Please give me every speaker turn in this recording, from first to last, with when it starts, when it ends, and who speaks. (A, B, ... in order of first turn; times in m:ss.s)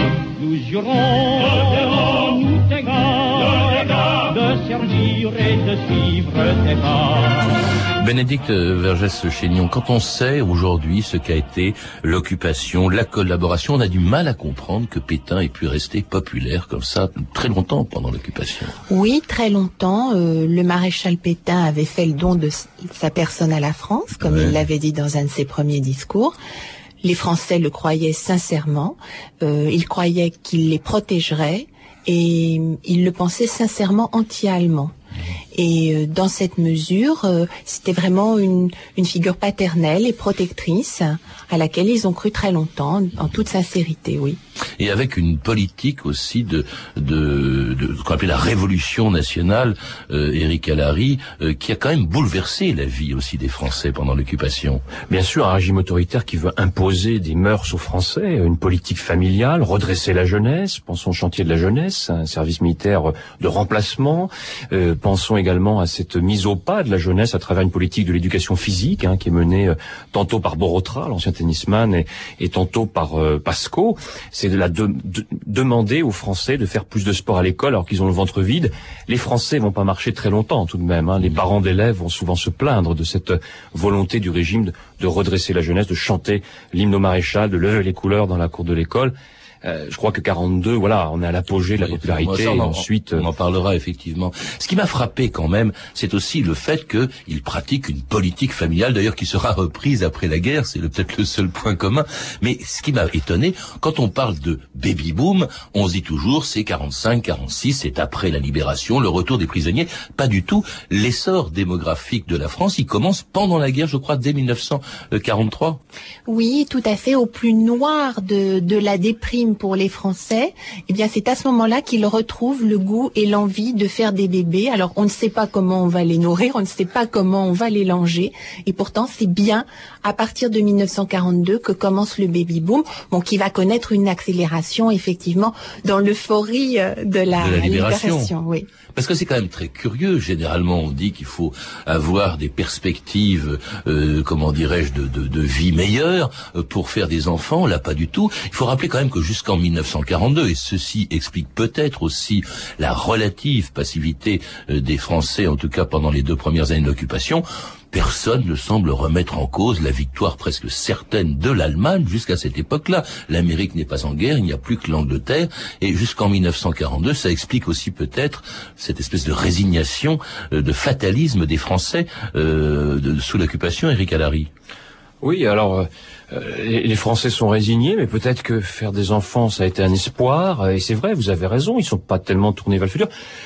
0:00.4-0:03.5 A
0:04.2-0:07.1 A
0:08.0-0:18.8 B
0:18.9-0:26.4 C
0:24.2-0:24.5 B
0:27.0-0:34.9 C
0:35.5-0:44.4 C
0:44.8-0:54.8 B
0:55.1-1:33.3 D
1:31.8-1:55.8 B
1:56.3-2:18.7 C
2:17.4-2:18.3 B
2:18.9-2:54.5 B
2:55.2-3:03.1 D